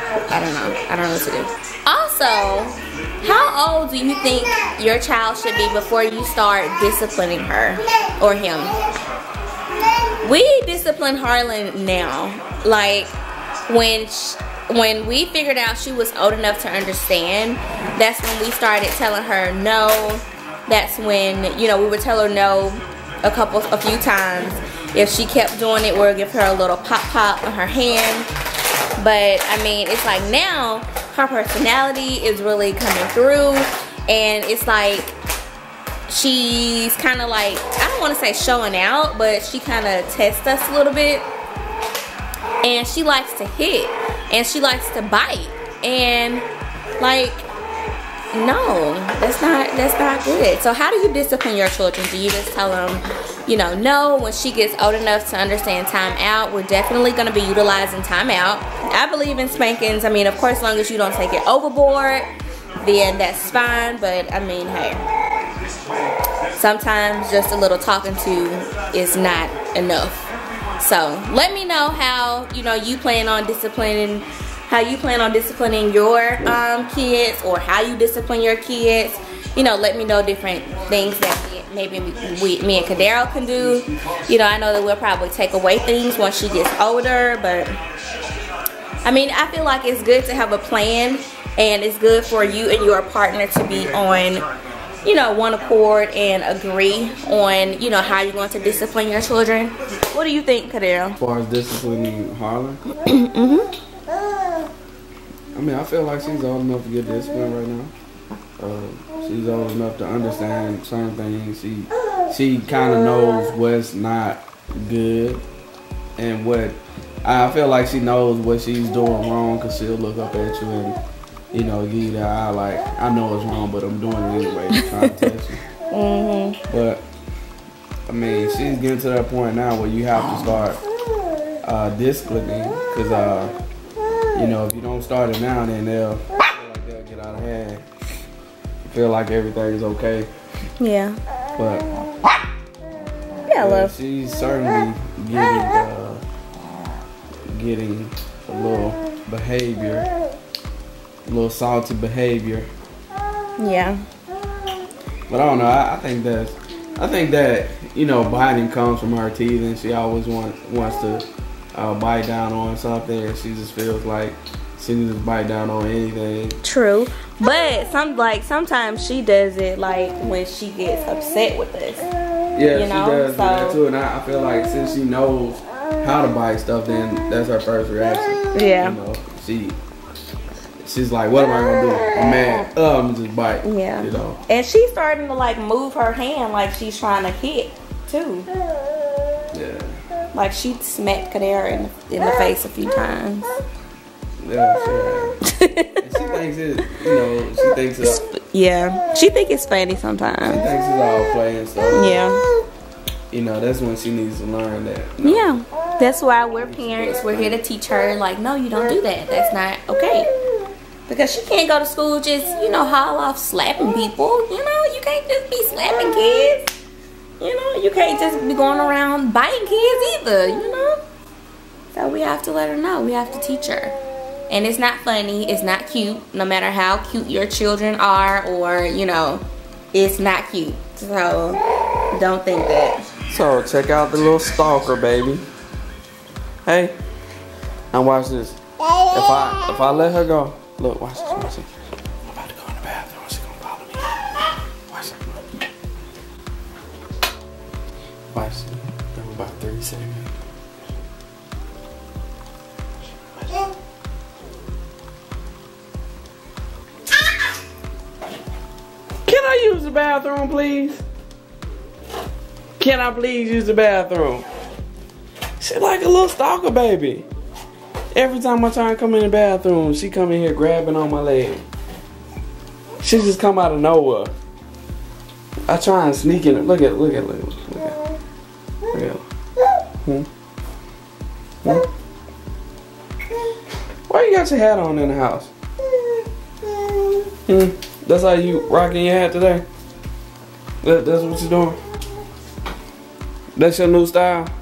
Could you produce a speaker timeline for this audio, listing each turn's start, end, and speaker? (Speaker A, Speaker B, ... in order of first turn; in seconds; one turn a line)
Speaker A: 0.3-8.8
Speaker A: 10.2-13.2
Speaker A: 13.7-28.3
Speaker A: 29.0-35.1
Speaker A: 36.1-41.3
Speaker A: 42.6-46.4
Speaker A: 47.0-47.5
Speaker A: 48.3-62.3
Speaker A: 62.8-65.0
Speaker A: 66.5-70.2
Speaker A: 70.8-87.8
Speaker A: 89.0-94.4
Speaker A: 95.0-101.2
Speaker B: 101.2-102.8
Speaker A: 103.0-103.7
Speaker B: 105.5-107.9
Speaker B: 108.6-115.4
Speaker B: 116.2-121.0
Speaker B: 121.5-125.6
Speaker A: 124.8-125.1
Speaker A: 125.9-126.6
Speaker B: 126.7-127.0
Speaker B: 128.1-130.8
Speaker B: 131.6-133.5
Speaker B: 134.3-137.8
Speaker B: 138.9-140.3
Speaker A: 140.8-141.2
Speaker B: 141.6-141.9
Speaker A: 143.5-143.9
Speaker B: 143.6-146.2
Speaker B: 147.5-150.1
Speaker B: 151.2-152.7
Speaker A: 153.6-154.0
Speaker B: 155.3-166.6
Speaker A: 166.6-172.1
Speaker B: 172.5-179.8
Speaker A: 172.7-173.8
Speaker A: 178.5-179.0
Speaker B: 180.8-184.4
Speaker A: 181.5-182.7
Speaker A: 183.6-188.5
Speaker B: 189.5-189.9
Speaker A: 190.3-193.5
Speaker B: 194.4-195.4
Speaker A: 195.4-196.1
Speaker B: 196.0-198.2
Speaker A: 198.0-200.6
Speaker B: 200.4-202.3
Speaker A: 201.9-202.4
Speaker B: 203.3-205.5
Speaker A: 205.2-210.3
Speaker B: 206.6-207.6
Speaker A: 211.1-216.7
Speaker A: 217.4-221.0
Speaker A: 221.9-223.9
Speaker A: 224.5-231.6
Speaker A: 232.1-233.0
Speaker B: 233.3-235.4
Speaker B: 236.7-236.9
Speaker B: 237.9-241.7
Speaker B: 242.2-244.3
Speaker B: 244.9-245.4
Speaker B: 248.3-250.3
Speaker B: 253.4-253.7
Speaker B: 259.2-261.0
Speaker B: 262.8-264.4
Speaker B: 265.6-267.3
Speaker B: 268.1-271.6
Speaker B: 273.0-274.3
Speaker B: 275.7-278.0
Speaker B: 278.9-279.2
Speaker B: 281.6-281.9
Speaker B: 284.1-285.5
Speaker B: 287.5-289.6
Speaker B: 290.8-291.8
Speaker B: 293.6-294.5